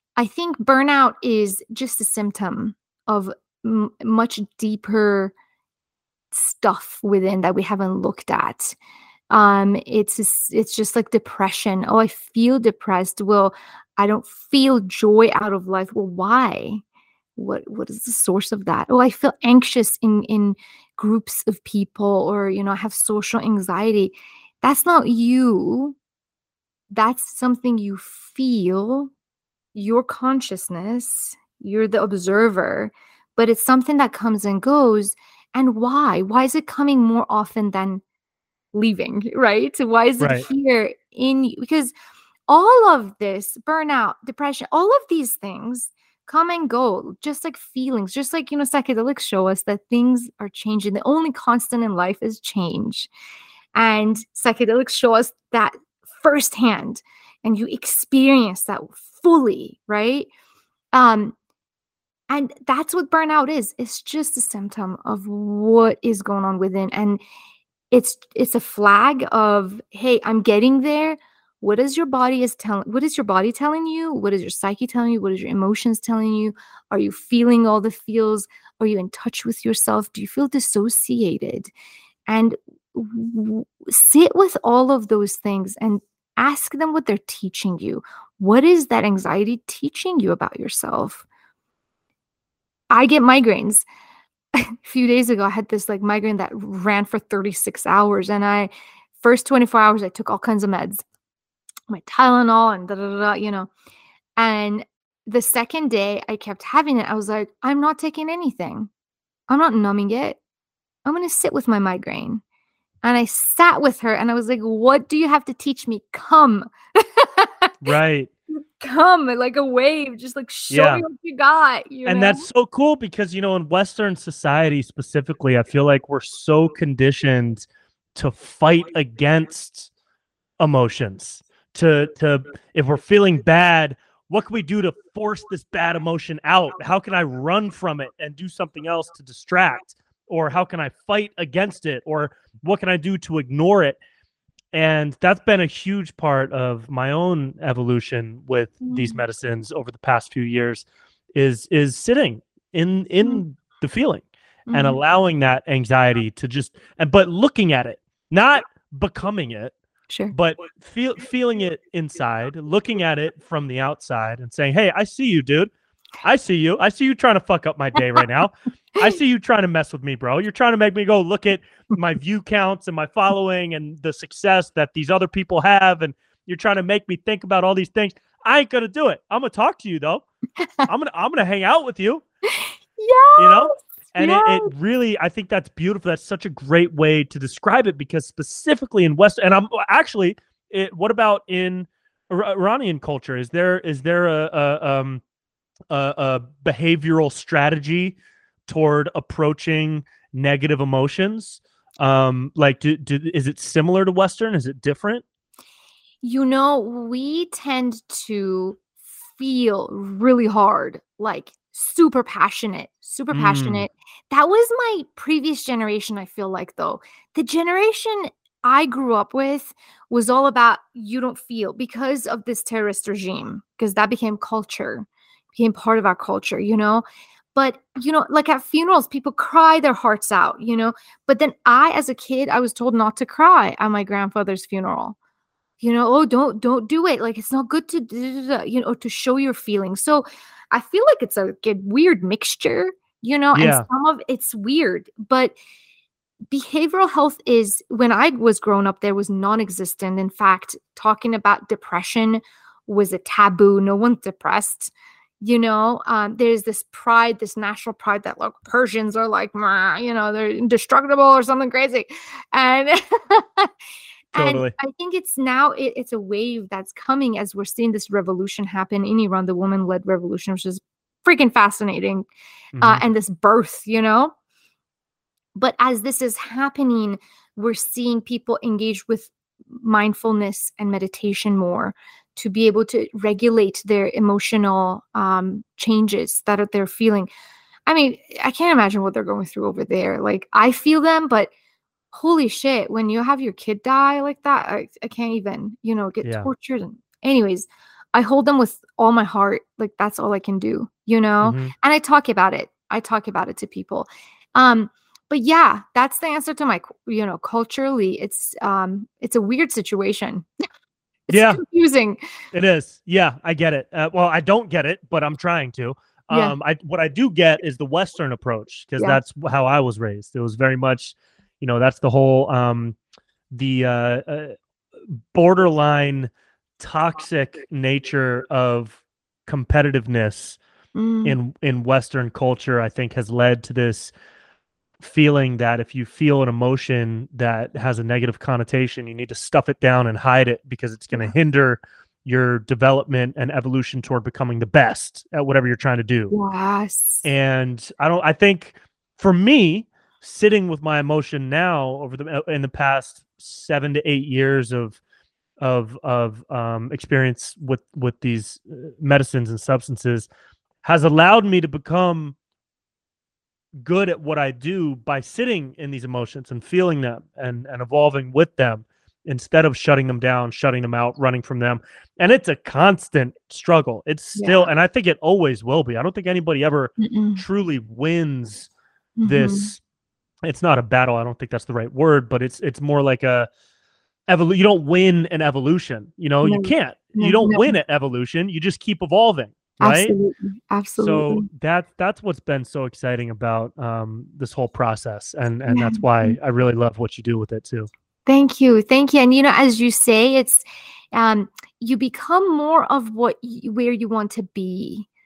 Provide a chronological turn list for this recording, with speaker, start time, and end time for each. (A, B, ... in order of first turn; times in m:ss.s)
0:00.2-0:05.3 A
0:06.3-0:08.8 A
0:09.3-0:16.8 A
0:17.4-0:26.0 A
0:26.9-0:29.1 A
0:29.7-0:38.0 A
0:38.7-0:41.9 A
0:40.2-0:40.4 B
0:42.5-0:53.1 A
0:53.8-1:00.3 A
1:00.9-1:01.3 A
1:02.3-1:07.2 A
1:07.9-1:21.7 A
1:22.3-1:31.2 A
1:32.9-1:33.8 A
1:34.6-1:41.0 A
1:41.9-1:43.7 A
1:44.4-1:48.9 A
1:49.5-1:50.4 A
1:51.0-1:52.4 A
1:53.0-1:57.7 A
1:57.8-1:58.3 B
1:58.5-2:02.5 A
2:00.7-2:01.0 B
2:02.0-2:09.9 B
2:10.6-2:24.0 B
2:24.7-2:39.7 B
2:28.8-2:29.2 A
2:34.7-2:35.0 A
2:40.3-2:45.7 B
2:46.2-3:00.2 B
3:00.6-3:00.9 A
3:00.9-3:02.2 B
3:02.5-3:04.7 A
3:03.4-3:15.2 B
3:15.9-3:25.2 B
3:26.2-3:28.8 A
3:29.4-3:55.2 A
3:33.3-3:33.9 B
3:55.8-4:05.6 A
4:03.5-4:03.9 B
4:06.5-4:23.7 A
4:24.3-4:32.3 A
4:24.3-4:24.7 B
4:32.7-4:33.0 B
4:32.8-4:34.3 A
4:35.6-4:47.3 A
4:47.9-4:51.5 A
4:52.1-5:10.4 A
4:56.2-4:56.5 B
5:01.4-5:01.7 B
5:11.3-5:12.2 A
5:11.3-5:11.6 B
5:12.5-5:23.0 B
5:16.3-5:16.6 A
5:23.5-5:24.5 B
5:25.1-5:30.6 B
5:31.0-5:31.4 A
5:31.2-5:34.1 B
5:35.0-5:46.3 B
5:46.3-5:47.3 A
5:47.2-5:55.0 B
5:55.6-6:00.3 B
6:00.8-6:02.4 B
6:03.8-6:18.7 B
6:14.4-6:14.7 A
6:17.0-6:17.4 A
6:19.2-6:19.7 A
6:19.2-6:19.8 B
6:20.4-6:23.5 B
6:24.3-6:30.1 B
6:26.4-6:27.7 A
6:29.8-6:31.5 A
6:31.0-6:37.9 B
6:35.7-6:36.4 A
6:38.3-6:45.1 A